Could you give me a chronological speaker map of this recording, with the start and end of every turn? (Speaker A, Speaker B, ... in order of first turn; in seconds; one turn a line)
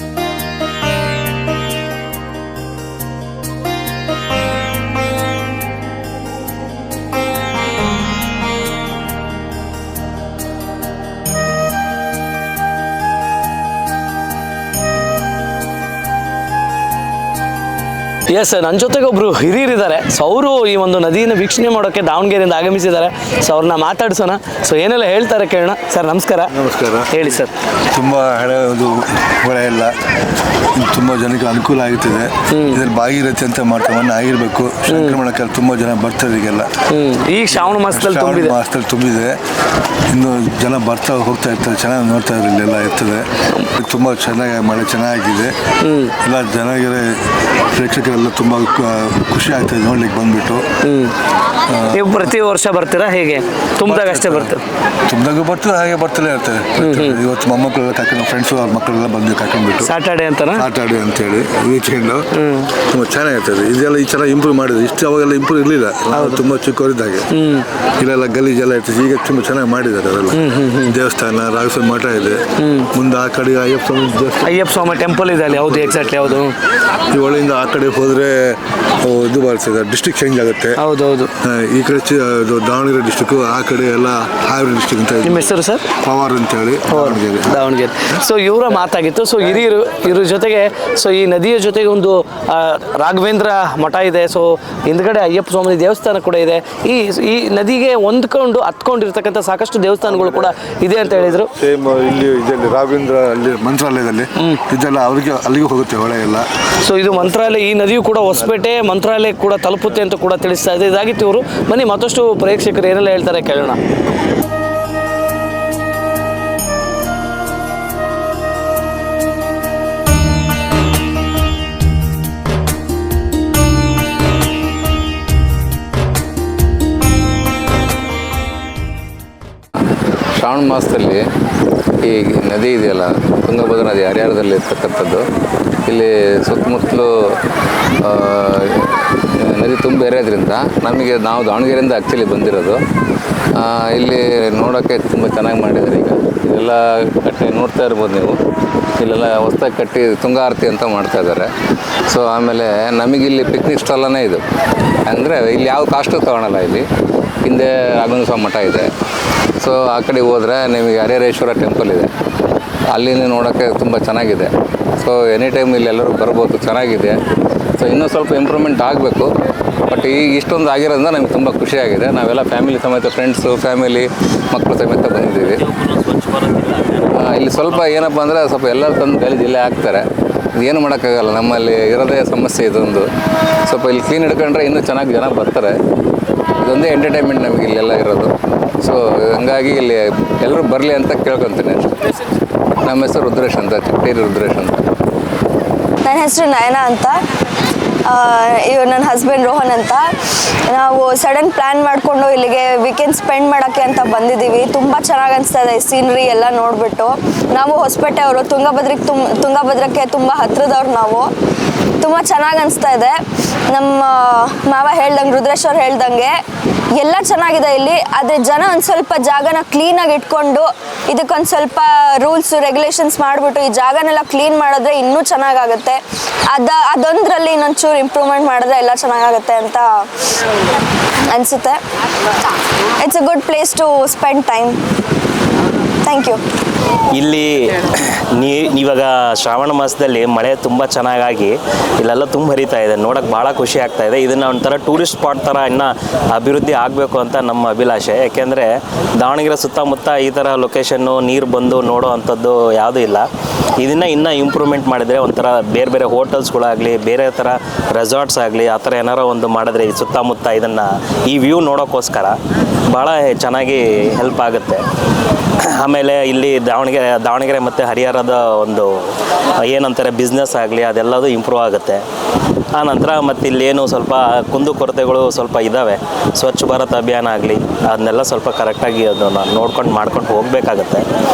Speaker A: 18.3-26.5
Speaker B: 26.5-29.9
Speaker A: 27.1-27.5
Speaker B: 30.7-36.7
Speaker A: 32.5-32.8
Speaker A: 34.9-35.2
Speaker A: 36.9-38.5
Speaker B: 37.5-39.4
Speaker B: 40.1-45.6
Speaker A: 45.8-46.1
Speaker B: 46.2-47.2
Speaker B: 47.7-50.7
Speaker A: 50.8-51.1
Speaker B: 51.7-52.1
Speaker A: 51.9-54.6
Speaker B: 53.8-54.5
Speaker B: 55.1-59.9
Speaker A: 56.8-57.2
Speaker A: 59.8-60.6
Speaker B: 60.5-67.3
Speaker A: 62.4-62.7
Speaker A: 66.1-66.4
Speaker A: 67.3-67.7
Speaker B: 68.0-74.7
Speaker A: 70.3-70.9
Speaker A: 72.6-72.9
Speaker A: 74.4-76.5
Speaker B: 75.5-76.4
Speaker B: 77.1-80.8
Speaker A: 80.8-81.3
Speaker B: 81.4-87.5
Speaker A: 85.2-85.9
Speaker A: 86.9-101.5
Speaker B: 100.1-100.6
Speaker B: 101.2-106.5
Speaker A: 106.8-113.8
Speaker C: 130.4-131.2
Speaker C: 132.0-135.2
Speaker C: 135.9-137.1
Speaker C: 138.0-138.9
Speaker C: 139.4-142.8
Speaker C: 143.6-148.4
Speaker C: 149.0-151.5
Speaker C: 152.1-154.4
Speaker C: 155.1-156.9
Speaker C: 157.4-158.9
Speaker C: 159.6-162.1
Speaker C: 162.9-164.5
Speaker C: 165.0-167.2
Speaker C: 167.8-169.3
Speaker C: 169.9-175.6
Speaker D: 175.6-177.8
Speaker C: 177.2-180.1
Speaker C: 180.6-183.1
Speaker C: 183.7-185.8
Speaker C: 186.6-188.3
Speaker C: 188.8-192.0
Speaker C: 192.8-194.8
Speaker E: 196.0-197.2
Speaker E: 198.1-200.1
Speaker E: 200.7-211.3
Speaker E: 212.0-216.4
Speaker E: 217.0-230.1
Speaker E: 231.3-231.8
Speaker E: 233.0-234.8
Speaker E: 236.1-236.4
Speaker D: 237.1-262.4
Speaker D: 262.9-264.8
Speaker D: 265.6-272.0
Speaker D: 272.7-281.1